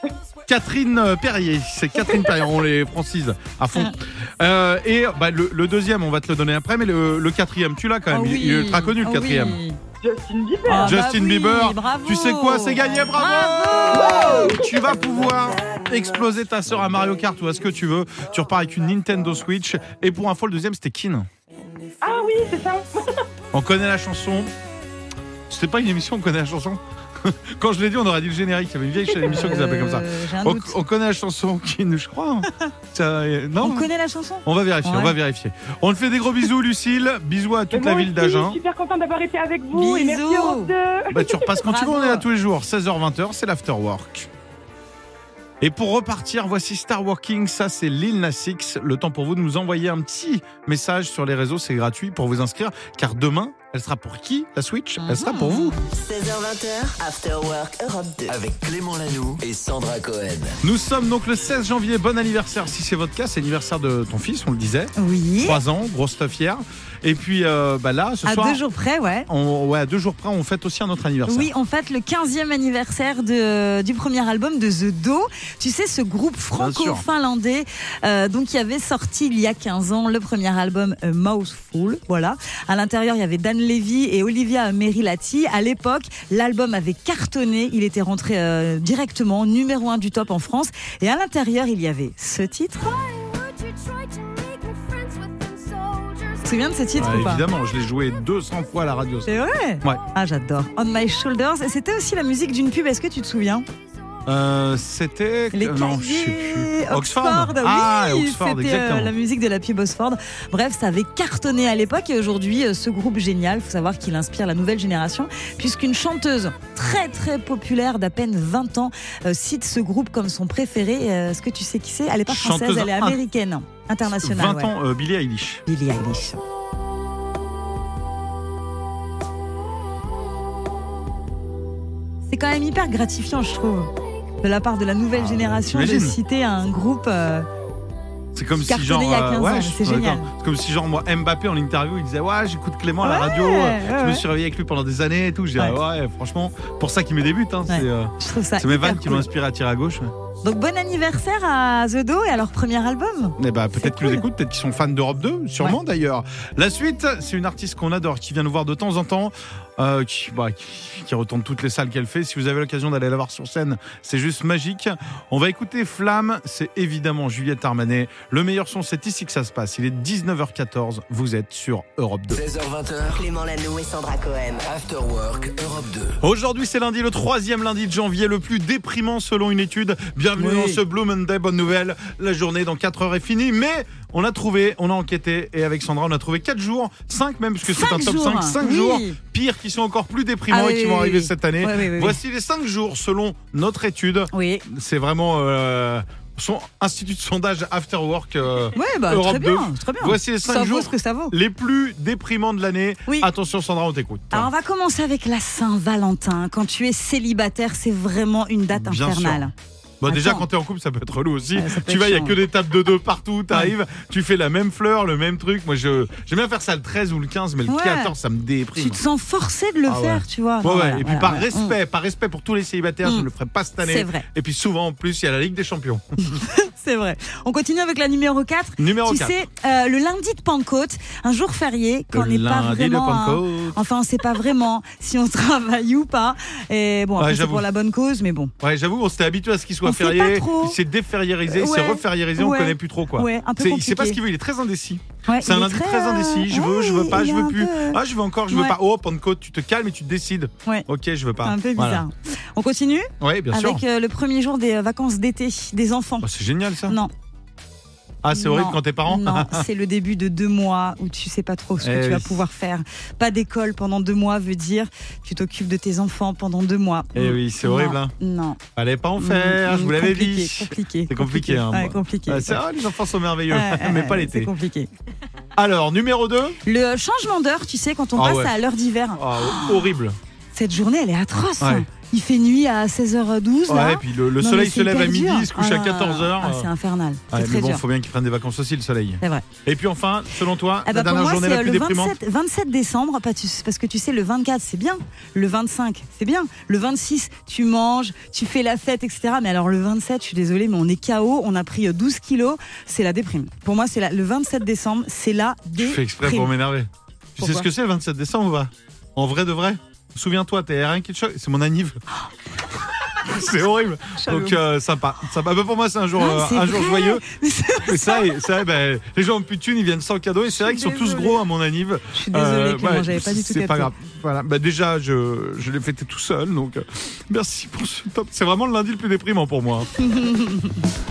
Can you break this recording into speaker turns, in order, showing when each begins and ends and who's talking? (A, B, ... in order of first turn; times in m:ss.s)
0:00.5-0:09.6 A
0:02.0-0:02.4 B
0:08.1-0:09.8 C
0:10.0-0:10.9 B
0:10.7-0:14.6 C
0:10.8-0:21.3 A
0:13.8-0:15.2 B
0:22.0-0:23.1 B
0:23.5-0:24.5 A
0:25.5-0:33.9 A
0:29.2-0:30.8 C
0:33.6-0:35.2 C
0:34.4-0:38.6 A
0:37.7-0:41.7 B
0:39.7-0:40.7 C
0:41.1-0:44.3 A
0:41.7-0:42.2 C
0:45.6-0:55.8 A
0:55.0-0:55.8 C
0:55.9-0:58.4 D
0:58.3-1:00.5 E
1:00.6-1:08.6 A
1:05.0-1:05.6 C
1:08.2-1:09.3 C
1:09.3-1:11.5 A
1:11.3-1:34.4 C
1:16.6-1:17.0 A
1:35.9-1:37.4 C
1:37.0-1:40.0 A
1:39.3-1:43.7 C
1:44.3-1:49.2 A
1:45.5-2:04.7 C
2:02.3-2:03.2 A
2:04.1-2:05.6 A
2:05.7-2:06.4 C
2:12.3-2:17.5 C
2:15.1-2:16.2 A
2:18.3-2:30.1 A
2:18.7-2:20.3 C
2:23.0-2:24.2 C
2:27.7-2:29.3 C
2:30.4-2:34.2 C
2:33.4-2:52.4 A
2:52.3-2:53.3 E
2:53.1-2:54.7 D
2:54.6-2:56.2 E
2:56.2-3:24.5 A
3:00.4-3:00.8 C
3:07.7-3:09.2 C
3:10.5-3:12.2 C
3:14.3-3:14.6 C
3:18.8-3:21.4 C
3:24.3-3:29.5 C
3:28.7-3:29.5 A
3:30.0-3:39.0 A
3:30.1-3:30.5 C
3:31.6-3:32.4 C
3:37.7-3:38.2 C
3:38.8-3:41.8 C
3:39.9-3:46.0 A
3:43.8-3:44.3 C
3:46.3-3:58.5 C
3:48.8-3:49.4 A
3:52.1-3:53.8 A
3:57.2-3:57.6 A
3:58.6-4:12.0 A
3:59.8-4:00.8 C
4:01.5-4:04.2 C
4:05.3-4:08.8 C
4:11.4-4:16.3 C
4:13.2-4:13.8 A
4:16.2-4:17.0 A
4:16.9-4:17.1 C
4:18.2-4:19.6 A
4:18.3-4:28.6 C
4:21.8-4:22.4 A
4:27.2-4:28.1 A
4:28.8-4:34.5 A
4:29.2-4:32.6 C
4:33.5-4:34.9 C
4:35.6-4:36.6 A
4:36.7-4:39.9 C
4:38.2-4:38.5 A
4:39.2-4:40.2 A
4:40.5-4:47.8 C
4:41.6-4:41.9 A
4:43.7-4:46.7 A
4:47.3-4:52.2 A
4:50.8-5:06.5 C
5:05.8-5:12.0 A
5:07.4-5:07.7 C
5:13.2-5:17.2 A
5:14.2-5:14.6 C
5:16.2-5:18.4 C
5:17.8-5:29.9 A
5:20.5-5:21.4 C
5:22.1-5:23.9 C
5:30.0-5:30.8 C